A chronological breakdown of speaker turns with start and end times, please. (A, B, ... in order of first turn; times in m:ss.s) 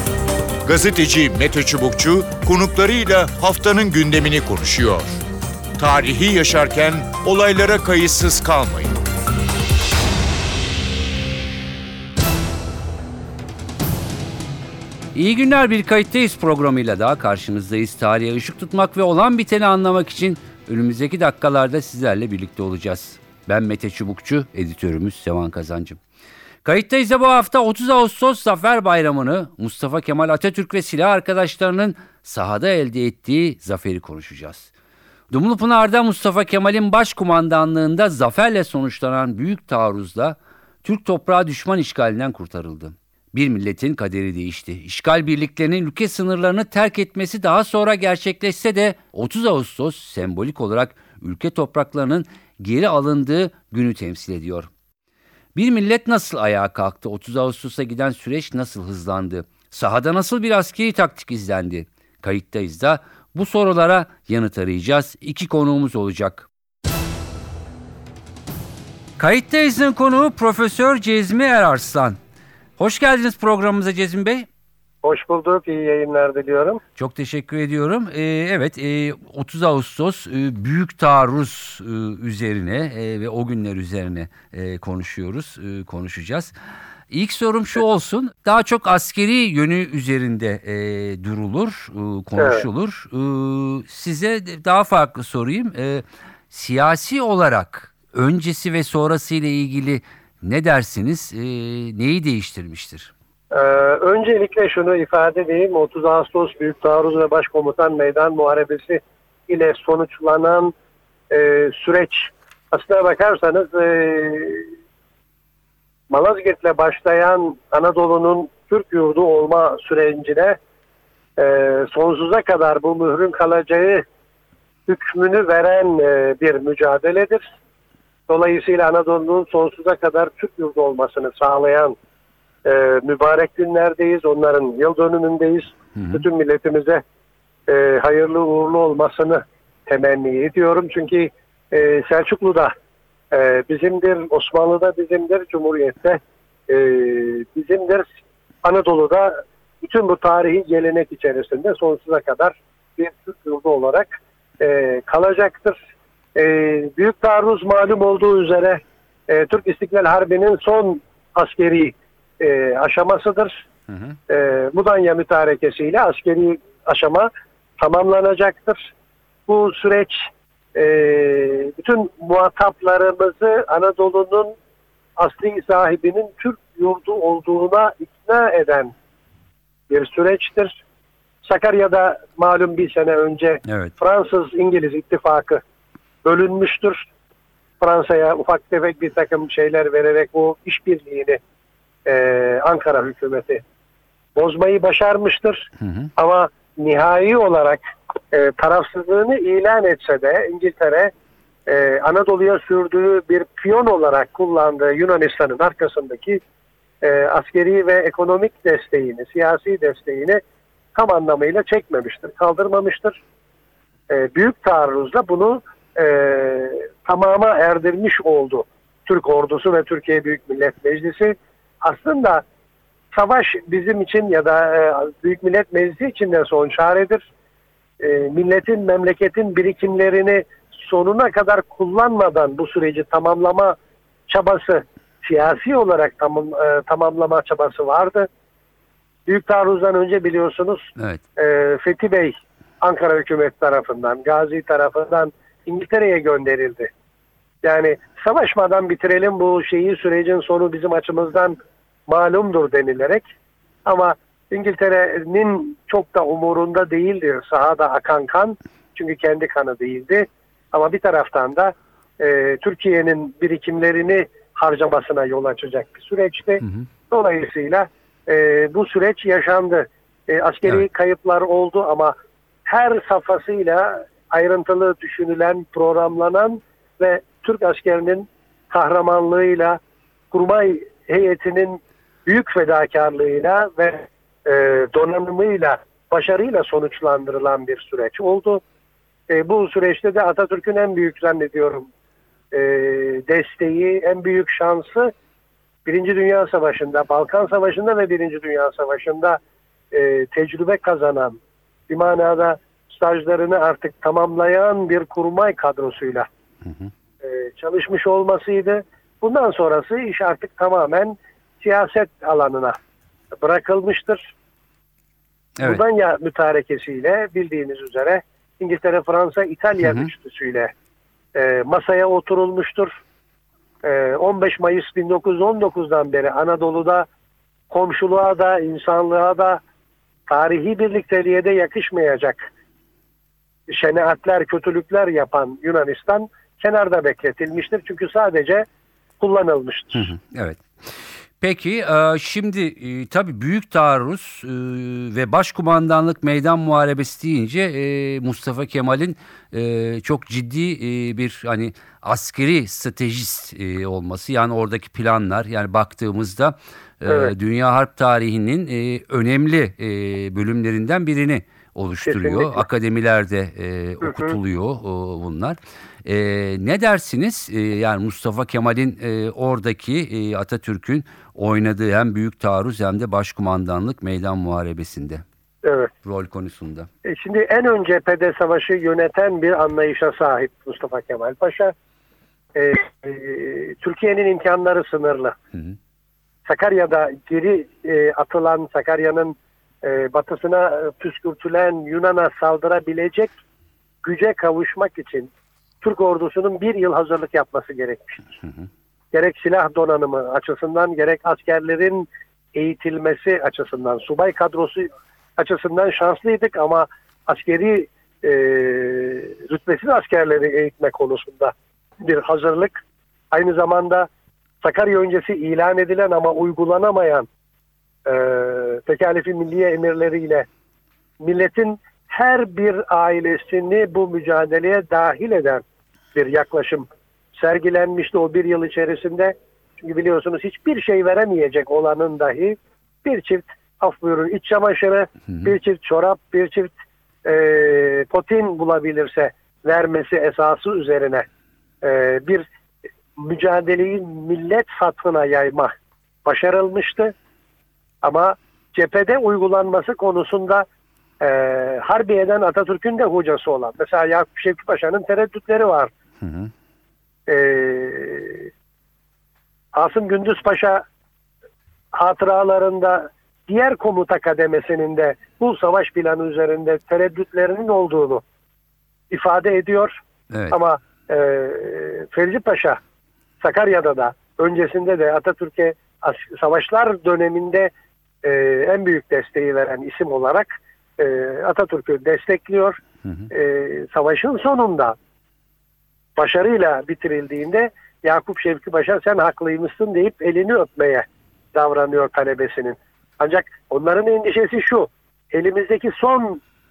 0:00.6-0:05.2 A
0:05.8-0:08.9 A
0:15.1-0:26.0 B
0:26.6-0:34.7 B
0:35.3-0:54.7 B
0:55.6-1:06.5 B
1:09.2-1:12.2 B
1:12.8-1:14.5 B
1:15.0-1:16.8 C
1:17.0-1:26.5 B
1:27.1-1:43.1 B
1:32.4-1:32.6 C
1:43.5-1:50.7 C
1:51.3-1:54.7 C
1:56.1-2:00.6 C
2:01.4-2:04.0 C
2:04.9-2:07.4 C
2:08.3-2:12.0 C
2:12.6-2:17.0 C
2:16.0-2:16.2 B
2:17.7-2:22.7 C
2:23.3-2:28.1 C
2:28.6-2:35.8 C
2:36.4-2:43.6 C
2:43.9-2:44.2 B
2:44.3-2:48.9 C
2:49.5-2:54.6 C
2:55.2-2:58.9 C
2:59.9-3:00.8 C
3:01.4-3:05.6 C
3:03.7-3:03.9 B
3:06.2-3:07.1 C
3:07.8-3:11.4 C
3:12.1-3:13.6 C
3:14.4-3:21.1 C
3:15.8-3:16.1 B
3:21.7-3:26.4 C
3:27.0-3:30.4 C
3:31.0-3:33.2 C
3:34.1-3:42.4 C
3:43.1-3:47.3 C
3:48.0-3:53.8 C
3:54.3-3:58.3 C
3:59.3-4:06.9 C
4:01.0-4:01.2 B
4:07.6-4:13.2 C
4:13.8-4:32.2 C
4:26.6-4:26.9 B
4:32.7-4:39.8 C
4:40.3-4:48.6 C
4:49.3-4:51.9 C
4:52.5-4:55.1 C
4:55.8-4:59.4 C
4:59.9-5:01.4 C
5:01.9-5:06.3 C
5:06.6-5:06.9 B
5:07.2-5:12.8 C
5:13.4-5:14.3 C
5:15.6-5:20.7 C
5:19.8-5:20.1 B
5:21.4-5:23.0 C
5:23.8-5:27.1 C
5:27.7-5:29.6 C
5:30.3-5:32.5 C
5:33.7-5:38.7 C
5:39.2-5:40.1 C
5:39.9-6:15.2 B
5:57.1-5:57.3 C
6:02.0-6:02.6 C
6:04.0-6:04.4 C
6:15.6-6:15.9 C
6:16.0-6:16.9 B
6:17.0-6:21.7 C
6:22.6-6:25.4 C
6:26.5-6:33.3 C
6:34.0-6:35.3 C
6:35.8-6:38.3 C
6:39.1-6:52.8 C
6:53.3-6:54.1 C
6:54.6-6:57.3 C
6:58.1-7:00.5 C
7:01.2-7:05.6 C
7:06.1-7:16.7 C
7:17.2-7:21.3 C
7:21.8-7:22.5 C
7:23.2-7:25.7 C
7:26.2-7:27.1 C
7:28.0-7:30.7 C
7:31.2-7:35.9 C
7:36.2-7:36.5 B
7:37.3-7:38.5 C
7:39.7-7:40.8 C
7:41.9-7:48.2 C
7:49.1-7:50.0 C
7:50.3-7:50.6 B
7:50.5-7:52.8 C
7:53.4-7:57.7 C
7:58.2-8:05.0 C
8:06.2-8:16.4 C